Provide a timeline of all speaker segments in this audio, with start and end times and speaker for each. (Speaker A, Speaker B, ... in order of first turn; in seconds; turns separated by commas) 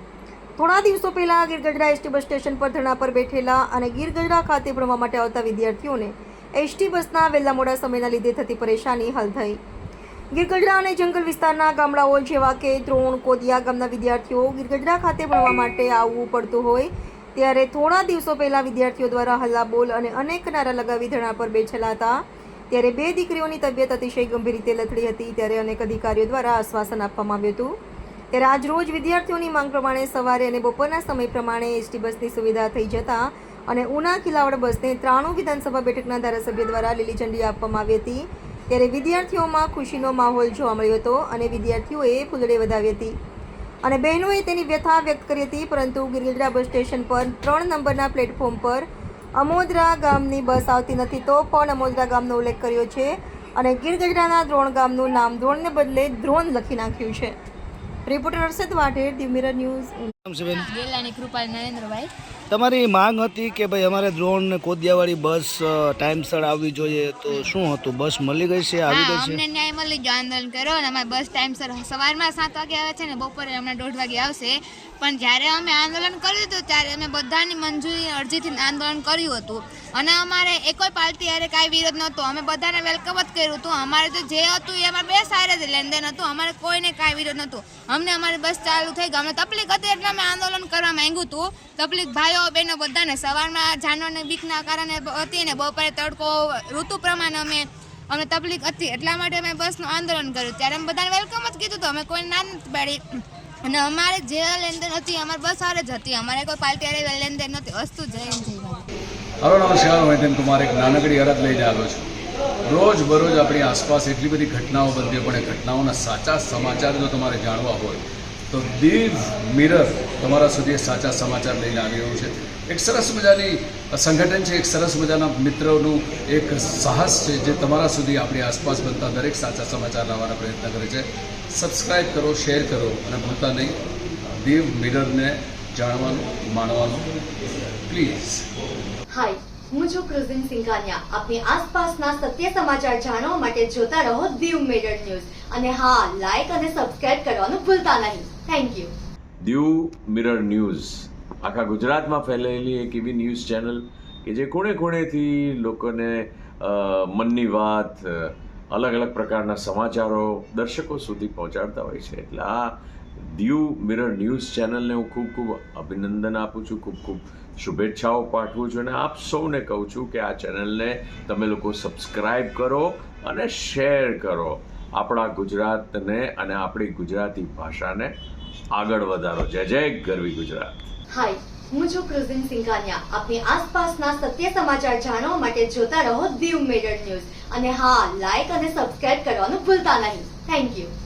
Speaker A: 0.6-9.6, Speaker A: 10.3-22.2, Speaker A: 22.7-27.8, Speaker A: 28.3-43.1, Speaker A: 43.8-57.3, Speaker A: 58.1-60.1, Speaker B: 60.2-60.6, Speaker C: 60.6-62.1, Speaker B: 62.5-69.4, Speaker C: 68.9-103.0, Speaker C: 103.7-108.8, Speaker D: 109.4-112.0, Speaker D: 112.7-133.7, Speaker D: 134.4-137.1, Speaker D: 137.9-138.4, Speaker E: 139.1-148.9, Speaker F: 149.4-162.7, Speaker F: 163.3-178.1, Speaker F: 178.7-180.8, Speaker E: 181.1-190.9